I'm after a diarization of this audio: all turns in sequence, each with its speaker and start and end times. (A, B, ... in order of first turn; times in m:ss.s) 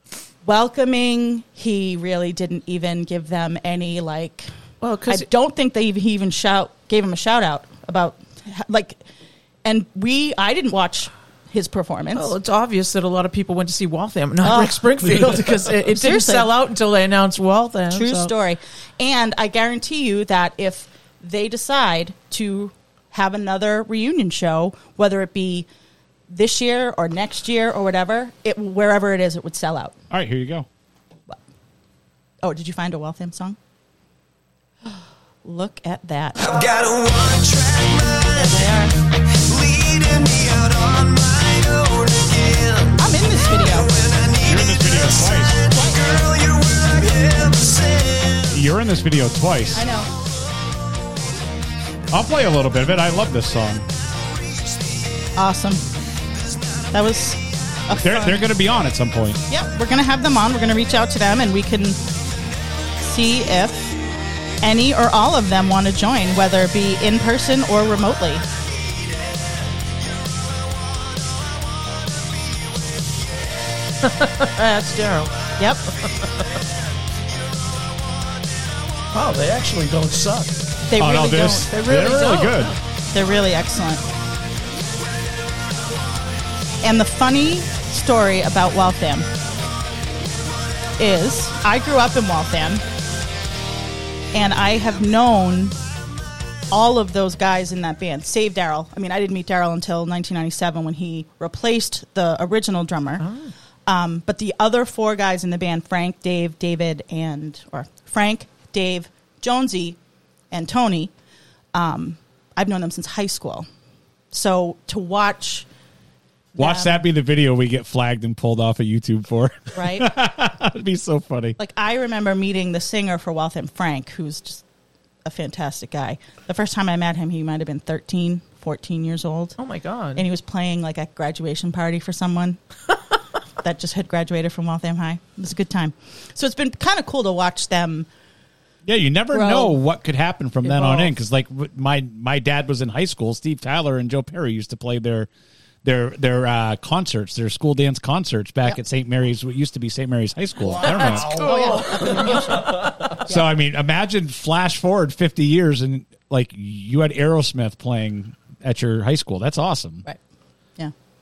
0:00.4-0:04.5 A
0:04.8-0:05.3 B
0:05.1-0:09.0 A
0:09.6-0:12.3 A
0:12.1-0:18.3 B
0:14.4-0:15.3 A
0:15.9-0:16.5 A
0:17.9-0:25.7 A
0:26.3-0:29.9 A
0:30.1-0:30.7 C
0:32.4-0:33.6 A
0:34.8-0:36.6 A
0:36.4-0:48.5 D
0:38.3-0:38.9 A
0:43.0-0:44.0 A
0:44.4-0:45.6 C
0:45.6-0:46.2 A
0:48.5-0:49.9 C
0:49.7-0:50.1 A
0:52.1-0:53.8 C
0:55.4-0:55.8 A
0:56.9-0:58.5 A
0:58.0-0:59.4 C
0:59.5-1:02.0 A
1:03.0-1:03.8 A
1:04.6-1:08.4 A
1:14.0-1:15.4 B
1:15.6-1:15.8 A
1:19.1-1:20.6 E
1:20.9-1:22.4 A
1:21.0-1:22.8 C
1:21.7-1:22.7 B
1:23.1-1:24.0 A
1:26.8-1:29.3 A
1:31.0-1:32.8 A
1:34.3-1:35.8 A
1:36.7-1:43.2 A
1:43.2-1:43.5 B
1:43.9-1:50.0 A
1:50.5-1:51.1 A
1:51.7-1:53.6 A
1:54.3-1:55.6 A
1:56.5-1:57.0 A
1:56.6-2:01.6 C
1:59.7-2:00.1 A
2:01.6-2:04.6 A
2:05.2-2:09.6 A
2:09.6-2:10.2 B
2:10.2-2:12.6 A
2:13.6-2:18.1 A
2:18.8-2:25.3 C
2:19.3-2:19.7 A
2:20.6-2:21.1 B
2:25.8-2:31.3 C
2:30.7-2:33.2 E
2:30.8-2:32.6 B
2:30.8-2:33.5 A
2:33.2-2:40.0 C